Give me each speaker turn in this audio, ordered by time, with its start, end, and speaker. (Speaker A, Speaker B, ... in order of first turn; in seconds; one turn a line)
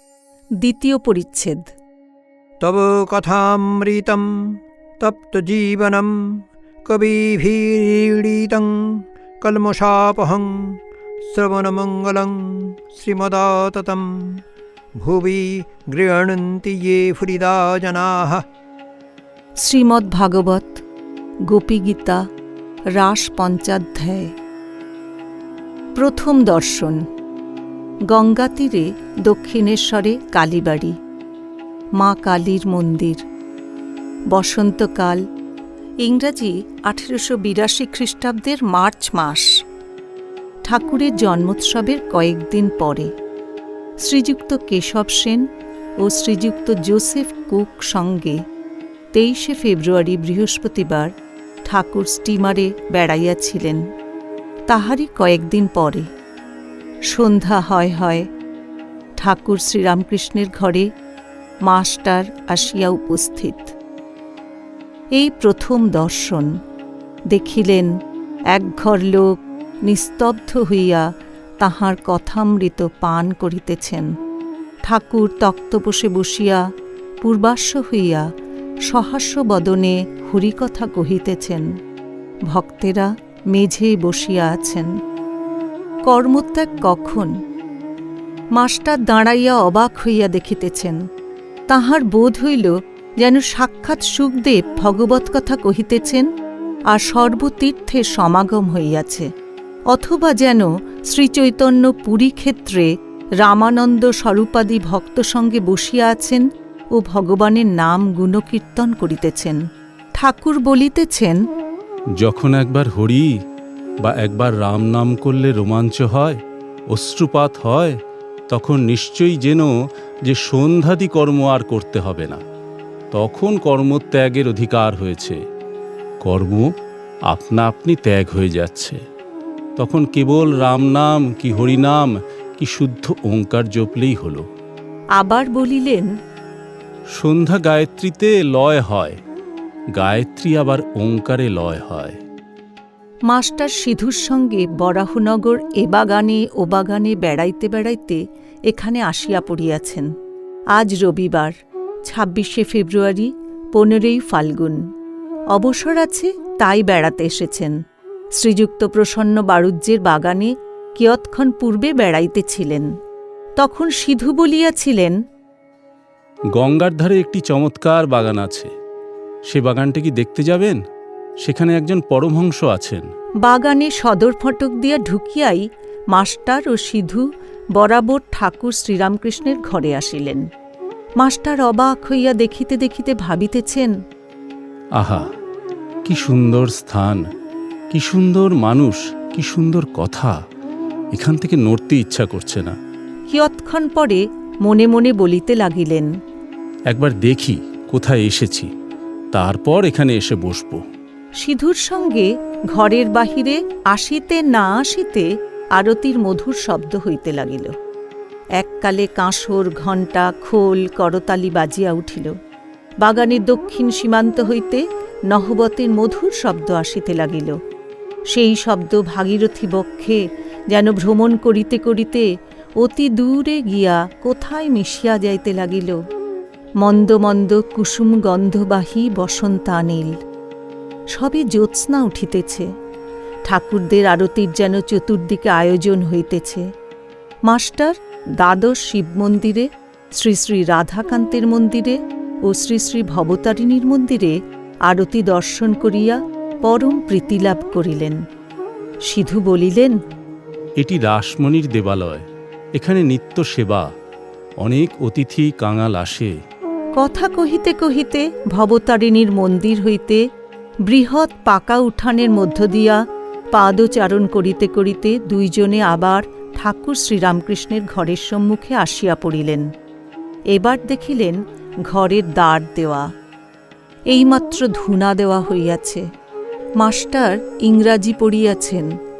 Speaker A: 0.6-1.7
Speaker B: 2.6-4.2
Speaker B: 5.0-6.1
Speaker B: 6.9-8.7
Speaker B: 9.4-10.6
Speaker B: 11.3-14.1
Speaker B: 15.0-18.4
Speaker A: 19.6-20.7
Speaker A: 21.5-22.2
Speaker A: 23.0-24.1
Speaker A: 25.9-26.9
Speaker A: 28.1-30.9
Speaker A: 32.0-33.1
Speaker A: 34.4-35.1
Speaker A: 36.1-39.2
Speaker A: 40.7-43.0
Speaker A: 44.1-45.3
Speaker A: 46.0-48.3
Speaker A: 49.1-51.0
Speaker A: 51.7-53.7
Speaker B: 52.6-52.9
Speaker A: 54.7-56.0
Speaker A: 57.3-58.1
Speaker A: 59.2-60.8
Speaker A: 61.7-63.5
Speaker A: 65.2-66.4
Speaker A: 67.3-67.8
Speaker A: 68.5-69.2
Speaker A: 69.9-71.0
Speaker A: 71.6-74.0
Speaker A: 74.9-76.4
Speaker A: 77.3-78.2
Speaker A: 78.9-79.8
Speaker A: 80.5-81.6
Speaker A: 82.6-83.0
Speaker A: 83.6-84.8
Speaker A: 86.1-87.2
Speaker A: 88.6-90.8
Speaker B: 90.4-90.9
Speaker A: 91.7-92.6
Speaker A: 93.2-96.2
Speaker A: 96.9-99.2
Speaker A: 100.0-100.5
Speaker A: 101.1-102.9
Speaker A: 103.4-109.6
Speaker A: 110.2-111.4
Speaker C: 112.2-113.3
Speaker C: 114.0-116.4
Speaker C: 116.9-117.9
Speaker C: 118.5-119.7
Speaker C: 120.2-122.4
Speaker C: 123.1-125.4
Speaker C: 126.2-126.7
Speaker C: 127.3-129.0
Speaker C: 129.8-134.4
Speaker A: 135.2-136.1
Speaker C: 137.2-139.2
Speaker C: 139.9-142.2
Speaker A: 143.3-150.1
Speaker A: 150.7-151.5
Speaker A: 152.0-154.7
Speaker A: 155.6-157.7
Speaker A: 158.3-162.9
Speaker A: 163.6-165.2
Speaker C: 166.6-168.7
Speaker C: 169.5-170.8
Speaker C: 171.4-173.0
Speaker A: 173.4-177.2
Speaker A: 177.8-180.4
Speaker A: 181.2-183.9
Speaker C: 185.0-185.2
Speaker C: 186.0-187.2
Speaker C: 187.9-190.3
Speaker C: 191.1-192.7
Speaker A: 193.3-196.1
Speaker C: 196.9-198.7
Speaker C: 199.3-200.8
Speaker A: 201.4-207.7
Speaker A: 208.6-212.2
Speaker A: 213.1-214.8
Speaker A: 215.3-217.5
Speaker A: 218.4-220.1
Speaker A: 220.7-222.2
Speaker A: 222.8-225.9
Speaker A: 226.8-230.0
Speaker A: 231.2-232.6
Speaker A: 233.5-236.4
Speaker A: 237.5-237.8
Speaker A: 238.5-239.6
Speaker A: 240.2-244.3
Speaker A: 244.9-248.2
Speaker A: 249.1-249.9
Speaker C: 250.8-253.9
Speaker C: 254.6-256.3
Speaker A: 257.0-260.2
Speaker A: 260.9-263.0
Speaker A: 263.5-269.6
Speaker A: 270.6-271.3
Speaker A: 272.0-272.9
Speaker A: 274.1-276.0
Speaker A: 276.8-278.9